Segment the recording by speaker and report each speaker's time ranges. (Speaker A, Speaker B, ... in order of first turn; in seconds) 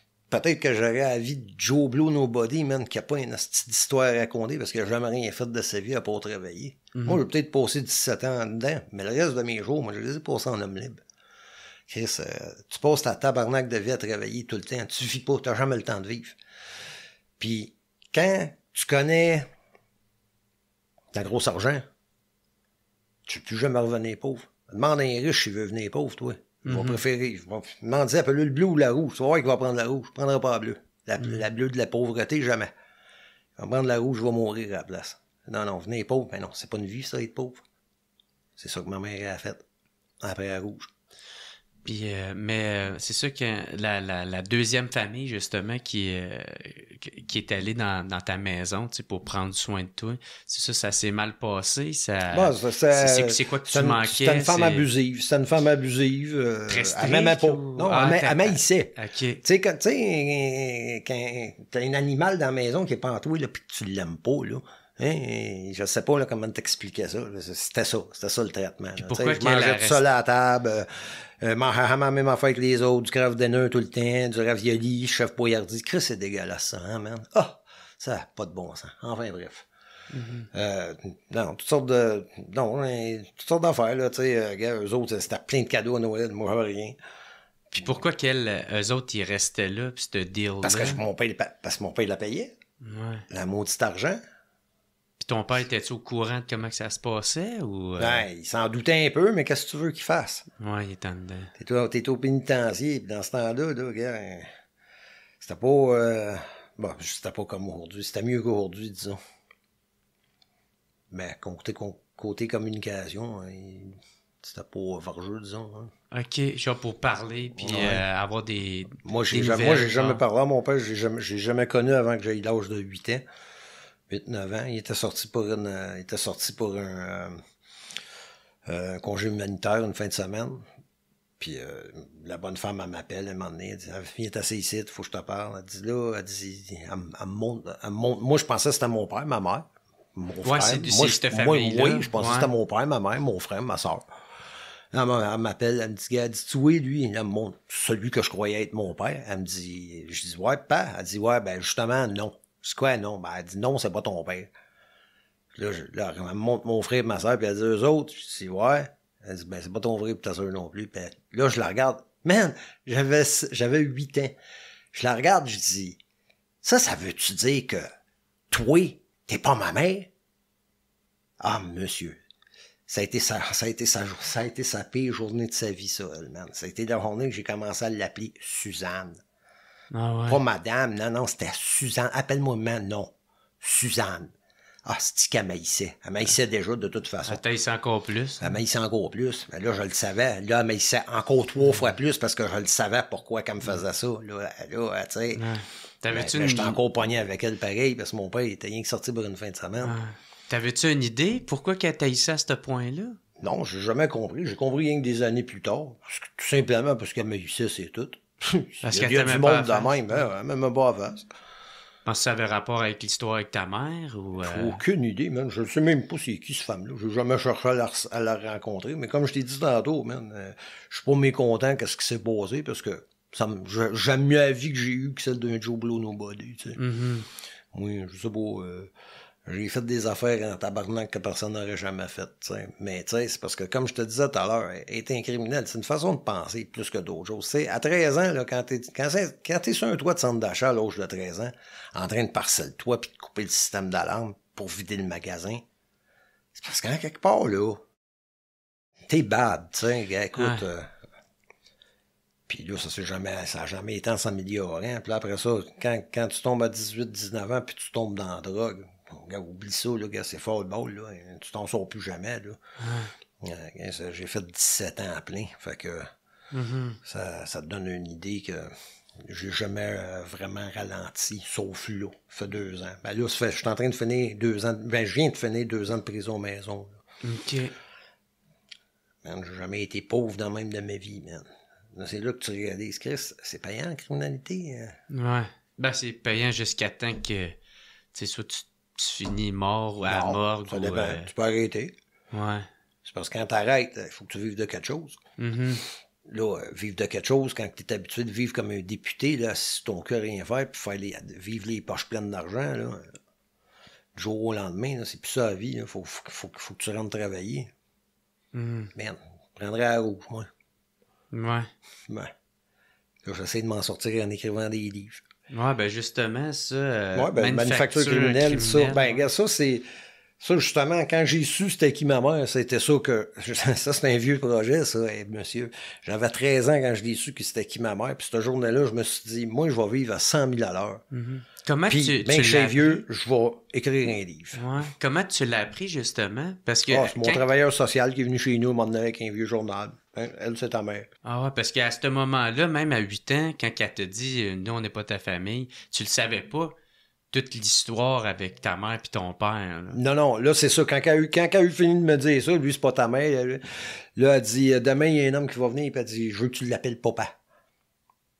Speaker A: 0.3-11.0, 11.9-16.4, 17.4-19.5, 21.1-21.8, 23.2-32.7, 33.6-37.6, 38.6-39.6, 40.2-40.9, 52.3-58.9, 59.4-79.7, 80.5-87.0, 90.6-92.5, 93.3-94.2, 98.0-100.4, 101.6-104.5, 105.4-109.2, 111.1-115.9, 117.6-118.0, 119.0-123.2, 124.1-127.4, 128.7-130.6, 131.4-144.0, 144.9-154.5, 155.5-164.3, 164.9-166.0, 166.6-167.8, 168.5-170.1, 171.4-172.2, 172.9-179.2, 180.3-184.3, 184.8-187.4, 188.4-195.4, 196.1-199.9, 203.4-211.3, 214.4-226.8, 227.7-228.9, 229.4-245.6, 246.5-247.8, 249.1-250.9, 252.5-262.6, 263.4-266.1, 267.0-277.0, 279.2-285.0, 290.1-291.9, 293.0-295.2, 296.2-303.1, 304.1-307.7, 308.9-310.5, 313.2-315.2, 317.1-319.9, 320.4-331.0, 331.9-334.6, 336.9-341.1, 349.9-353.6, 354.1-357.3
Speaker B: 6.9-7.2, 26.6-27.0, 41.8-54.9, 56.7-59.4, 69.0-70.0, 80.1-80.5, 87.7-91.0, 92.8-93.2, 95.2-98.2, 100.6-101.5, 116.1-120.2, 140.4-142.5, 179.9-180.4, 187.3-188.5, 191.6-191.9, 195.3-196.8, 199.8-203.2, 208.8-210.2, 212.1-214.8, 226.8-227.3, 250.4-250.7, 262.8-263.1, 266.5-267.0, 277.2-277.7, 285.1-287.6, 288.1-291.3, 292.3-292.7, 295.4-295.8, 308.5-308.9, 311.3-311.7, 315.5-319.2, 331.1-333.0, 334.5-337.5, 341.2-346.7, 347.3-350.0